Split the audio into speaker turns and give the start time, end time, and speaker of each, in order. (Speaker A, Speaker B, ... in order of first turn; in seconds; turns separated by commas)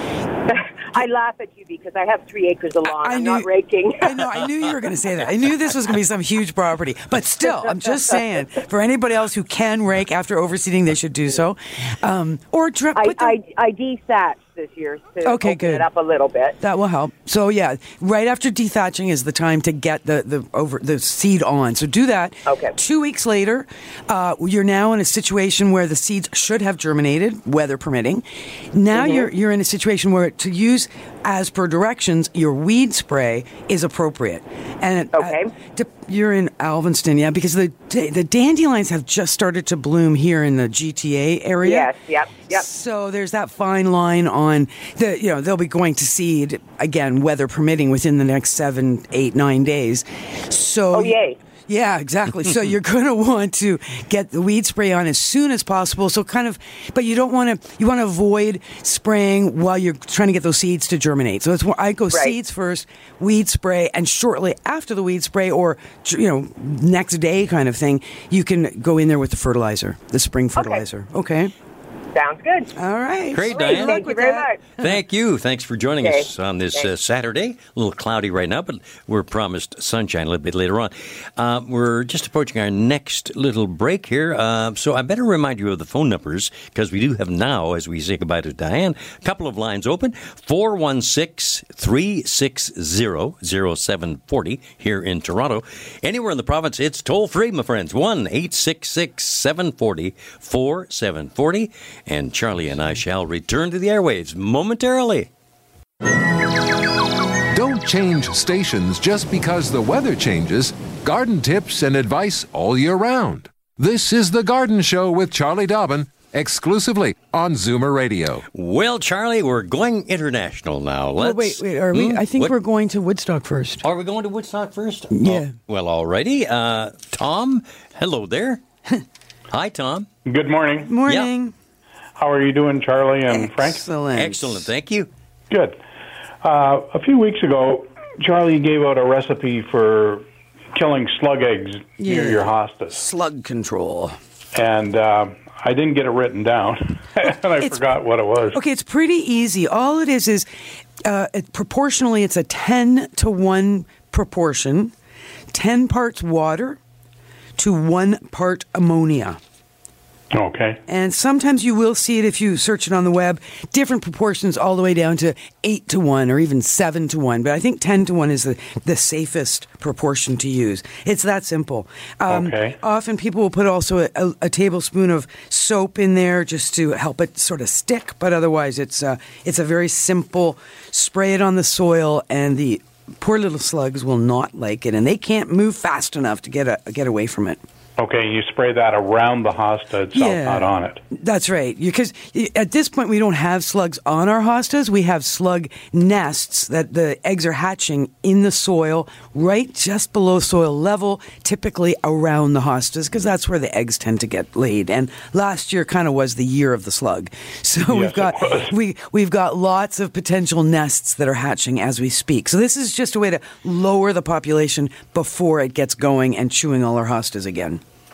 Speaker A: 0.5-4.2, Speaker B: 2.9-13.4, Speaker A: 12.9-16.6, Speaker B: 15.2-15.9, Speaker B: 16.6-41.9, Speaker A: 22.5-22.8, Speaker A: 28.9-29.2, Speaker A: 35.1-35.5, Speaker A: 41.6-42.6, Speaker B: 42.5-71.5, Speaker A: 50.9-51.4, Speaker A: 70.6-70.8, Speaker A: 72.1-72.7, Speaker B: 72.8-74.9, Speaker C: 73.3-74.1, Speaker A: 73.5-74.6, Speaker C: 74.8-105.3, Speaker A: 76.0-76.9, Speaker D: 107.5-118.5, Speaker C: 118.5-122.5, Speaker B: 121.2-123.9, Speaker C: 123.8-128.6, Speaker B: 125.1-125.5, Speaker C: 129.5-130.1, Speaker E: 130.2-130.9, Speaker B: 130.8-131.5, Speaker E: 132.2-133.8, Speaker B: 133.3-134.7, Speaker C: 134.1-135.1, Speaker E: 135.5-135.8, Speaker E: 136.4-143.0, Speaker B: 142.0-144.2, Speaker E: 144.5-148.6, Speaker B: 148.5-150.5, Speaker B: 151.0-154.9, Speaker B: 155.5-156.8, Speaker B: 157.6-159.4, Speaker E: 160.3-160.8, Speaker B: 160.9-187.6, Speaker E: 172.3-172.8, Speaker E: 188.0-191.0, Speaker B: 190.1-217.8, Speaker E: 207.8-208.7